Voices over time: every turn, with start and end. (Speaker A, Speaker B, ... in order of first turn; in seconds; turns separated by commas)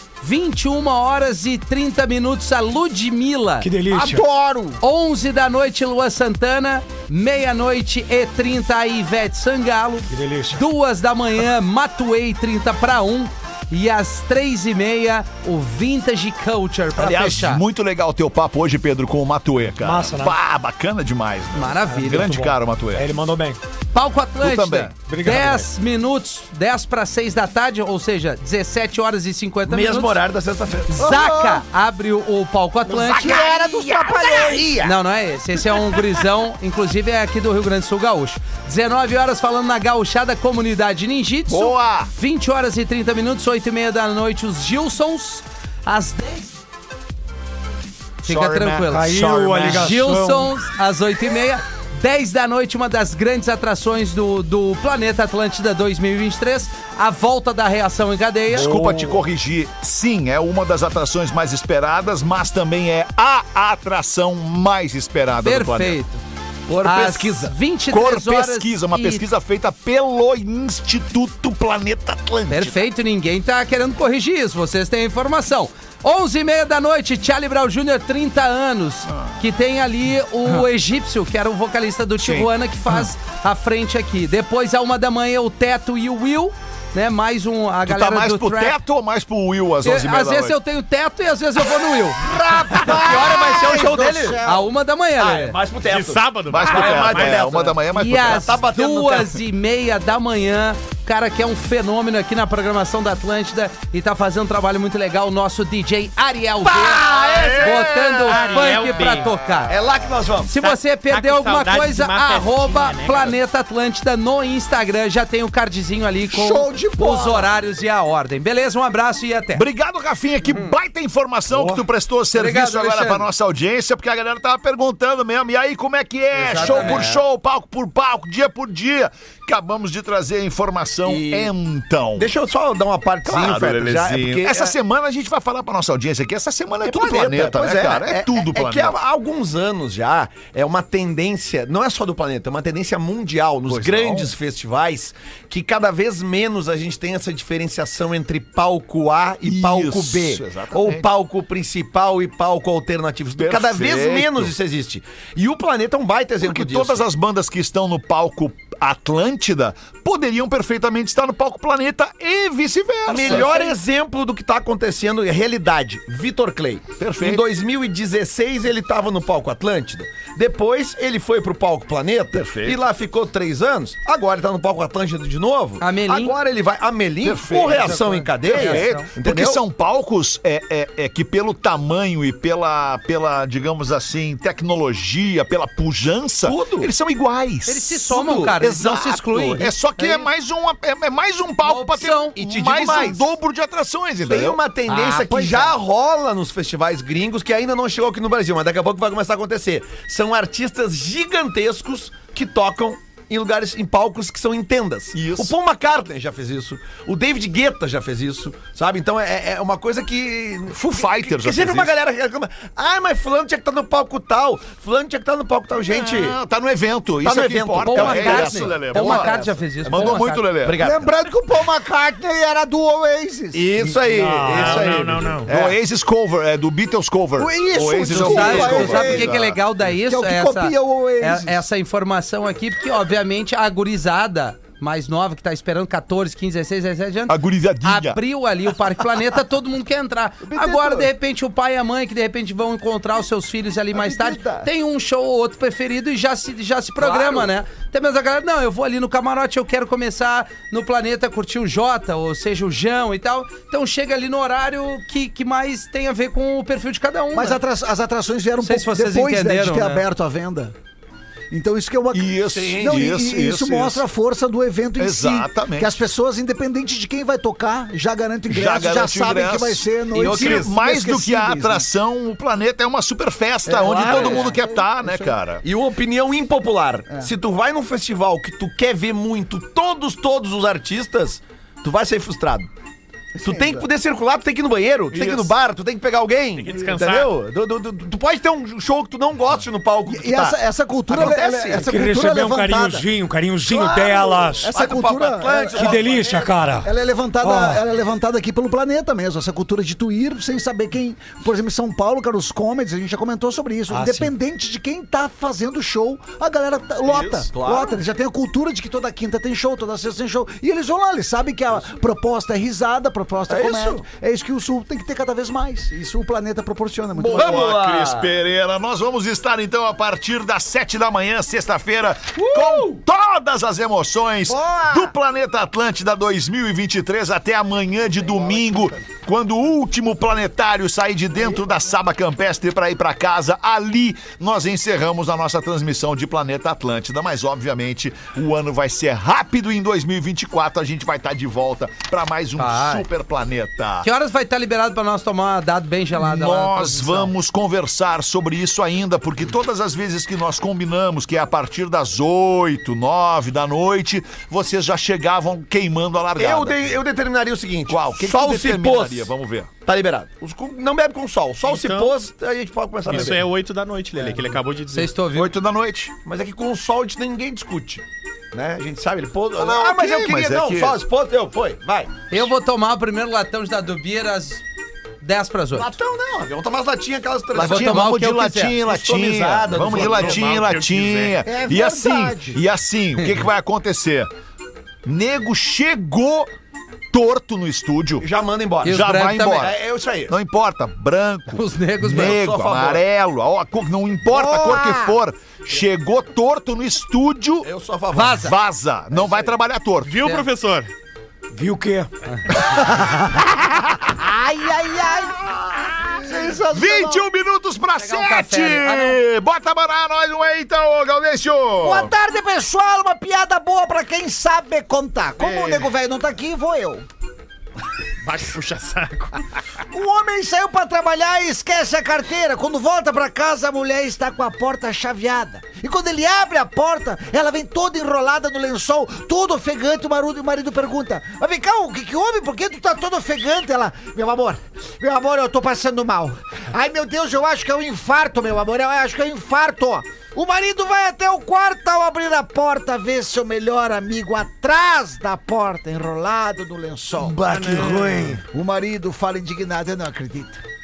Speaker A: 0.2-3.7, Speaker B: 3.6-4.2, Speaker C: 3.9-4.8, Speaker A: 4.8-17.6, Speaker B: 10.1-10.6, Speaker D: 16.9-23.1, Speaker B: 19.8-20.4, Speaker A: 21.5-22.3, Speaker B: 21.9-23.6, Speaker A: 23.9-30.2, Speaker D: 24.4-24.9, Speaker B: 25.0-25.7, Speaker E: 29.6-31.1, Speaker A: 30.9-33.5, Speaker C: 31.0-31.6, Speaker C: 32.9-34.9, Speaker D: 32.9-34.8, Speaker A: 34.8-46.6, Speaker D: 41.5-42.1, Speaker D: 48.2-49.9, Speaker A: 48.2-58.7, Speaker B: 48.8-50.5, Speaker D: 58.5-66.0, Speaker B: 58.5-59.2, Speaker A: 65.4-66.2, Speaker E: 66.7-67.5, Speaker A: 66.8-69.2, Speaker D: 67.9-72.8, Speaker A: 72.5-88.8, Speaker D: 79.1-79.3, Speaker D: 82.2-83.1, Speaker D: 87.8-90.5, Speaker A: 89.8-92.3, Speaker C: 92.3-94.7, Speaker E: 92.7-94.4, Speaker A: 94.4-95.6, Speaker E: 95.2-99.4, Speaker F: 95.8-97.6, Speaker D: 96.5-98.5, Speaker A: 97.9-109.8, Speaker E: 106.6-107.8, Speaker D: 107.1-108.8, Speaker F: 108.2-109.3, Speaker E: 109.7-110.5, Speaker A: 110.5-119.6, Speaker F: 110.6-113.4, Speaker E: 116.6-117.0, Speaker D: 119.5-132.3, Speaker A: 122.3-123.3, Speaker A: 126.3-127.2, Speaker E: 126.5-127.1, Speaker E: 131.0-131.5, Speaker E: 132.2-134.7, Speaker D: 133.2-138.9, Speaker E: 136.8-157.0, Speaker D: 143.7-144.3, Speaker D: 149.4-151.1, Speaker D: 153.4-154.5, Speaker D: 156.4-163.6, Speaker E: 163.1-179.6, Speaker D: 167.0-167.4, Speaker D: 172.3-172.8, Speaker A: 175.8-176.3, Speaker D: 177.2-194.6, Speaker B: 177.8-178.4, Speaker A: 178.5-179.1, Speaker E: 186.4-186.9, Speaker A: 187.7-190.3, Speaker A: 191.6-192.3, Speaker E: 192.3-193.2, Speaker E: 194.2-216.4, Speaker C: 194.9-195.7, Speaker D: 205.1-205.5, Speaker D: 210.7-211.9, Speaker D: 215.9-220.8, Speaker E: 217.2-221.2, Speaker A: 217.8-220.4, Speaker C: 220.8-223.7, Speaker E: 223.5-225.8, Speaker B: 223.8-225.4, Speaker F: 224.5-225.5, Speaker D: 225.4-229.6, Speaker C: 227.4-229.3, Speaker E: 228.1-229.1, Speaker A: 228.1-257.6, Speaker C: 229.9-231.6, Speaker D: 237.3-238.2, Speaker C: 240.4-241.1, Speaker C: 243.9-244.7, Speaker E: 247.0-247.5, Speaker C: 257.3-260.7, Speaker A: 258.6-260.1, Speaker C: 261.5-271.9, Speaker D: 262.1-264.0, Speaker E: 262.5-263.0, Speaker D: 265.0-265.9, Speaker D: 268.5-275.6, Speaker E: 270.1-270.7, Speaker C: 273.6-275.4, Speaker E: 273.7-274.6, Speaker E: 275.6-282.7, Speaker C: 283.3-283.9, Speaker E: 283.4-291.9, Speaker D: 285.1-285.4, Speaker F: 286.6-287.3, Speaker C: 290.1-293.1, Speaker B: 291.8-294.7, Speaker C: 293.7-296.1, Speaker E: 294.6-296.6, Speaker B: 295.7-296.9, Speaker C: 296.8-317.7, Speaker B: 297.4-297.8, Speaker B: 303.9-304.3, Speaker E: 307.0-308.0, Speaker E: 313.5-314.0, Speaker E: 317.2-318.3, Speaker D: 317.2-344.1, Speaker E: 322.5-323.0, Speaker C: 324.5-325.1, Speaker A: 342.6-343.1, Speaker A: 344.0-347.3, Speaker D: 346.1-356.9, Speaker E: 356.4-359.3, Speaker D: 357.9-359.7, Speaker E: 359.8-363.5, Speaker F: 361.6-362.1, Speaker F: 363.1-365.1, Speaker A: 364.9-365.5, Speaker D: 365.3-366.1, Speaker E: 366.2-372.4, Speaker D: 369.6-371.0, Speaker A: 372.3-374.6, Speaker A: 375.2-375.9, Speaker E: 375.7-378.1, Speaker A: 377.5-378.8, Speaker D: 377.5-384.3, Speaker E: 378.8-380.5, Speaker F: 379.8-381.4, Speaker C: 381.4-382.6, Speaker D: 385.0-386.5, Speaker D: 387.1-388.3, Speaker E: 388.2-390.3, Speaker A: 388.8-389.6, Speaker D: 388.9-397.7, Speaker A: 391.5-392.4, Speaker E: 392.1-393.0, Speaker C: 394.3-395.2, Speaker E: 397.6-398.4, Speaker A: 398.1-398.5, Speaker D: 398.4-400.2, Speaker E: 399.1-399.5, Speaker F: 400.0-400.9, Speaker B: 401.5-402.1, Speaker A: 402.3-402.6, Speaker C: 404.0-407.2, Speaker D: 406.7-412.1, Speaker A: 407.9-409.2, Speaker C: 411.8-417.1, Speaker F: 415.4-415.9, Speaker F: 418.2-419.4, Speaker C: 419.9-447.4, Speaker B: 447.2-448.4, Speaker F: 447.4-448.4, Speaker C: 448.5-450.6